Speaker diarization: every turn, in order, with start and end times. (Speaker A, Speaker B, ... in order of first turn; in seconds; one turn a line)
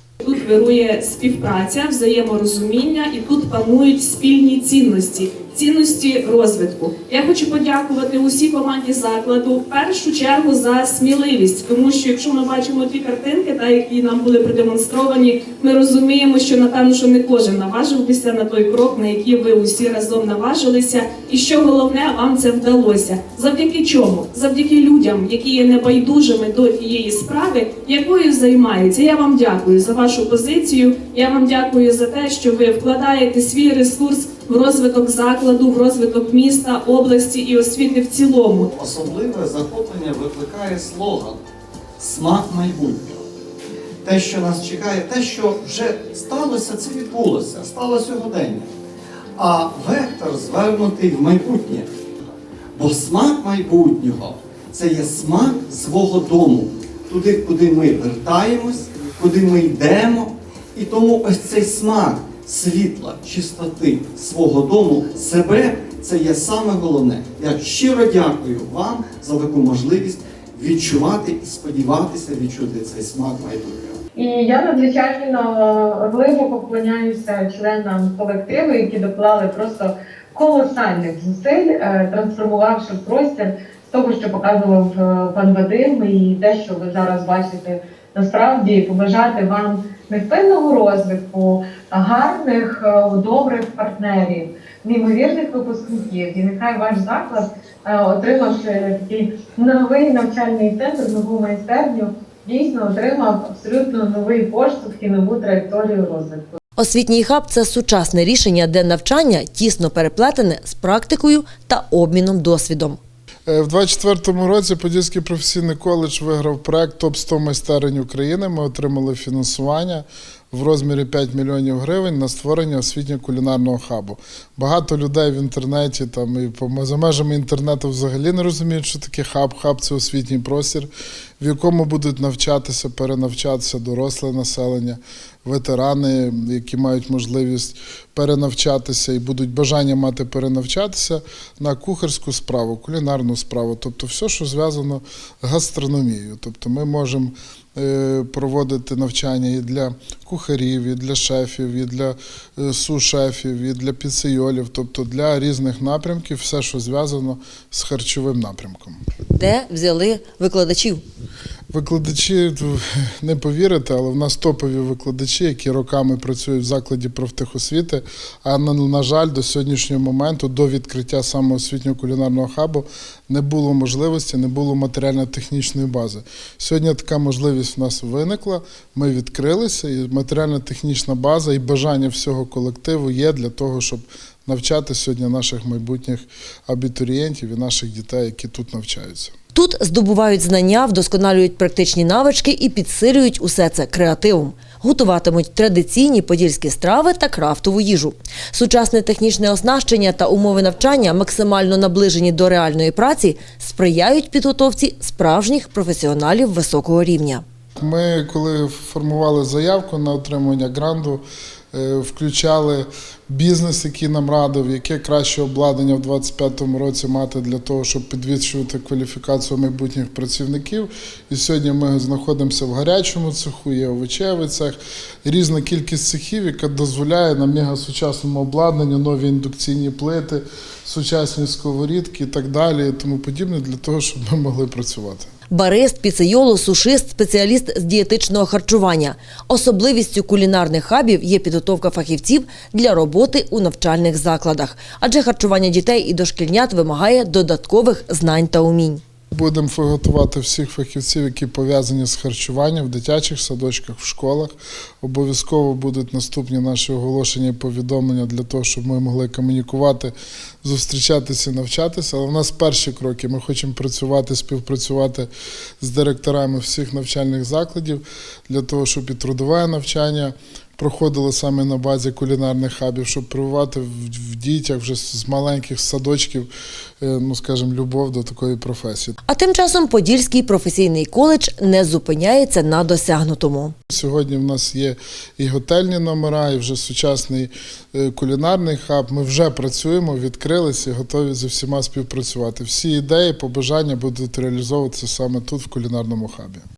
Speaker A: 0.2-38.7
Speaker B: 38.7-41.4
Speaker B: 42.0-43.2
Speaker B: 44.0-48.7
Speaker B: 49.4-51.9
Speaker B: 52.7-74.0
Speaker C: 74.2-106.6
Speaker D: 106.8-113.0
Speaker E: 113.5-159.0
Speaker D: 159.3-161.0
Speaker E: 161.7-189.3
Speaker D: 189.5-207.4
Speaker E: 207.8-235.3
Speaker D: 235.5-249.0
Speaker E: 249.3-276.5
Speaker E: 277.0-279.1
Speaker D: 279.3-283.7
Speaker E: 283.9-296.6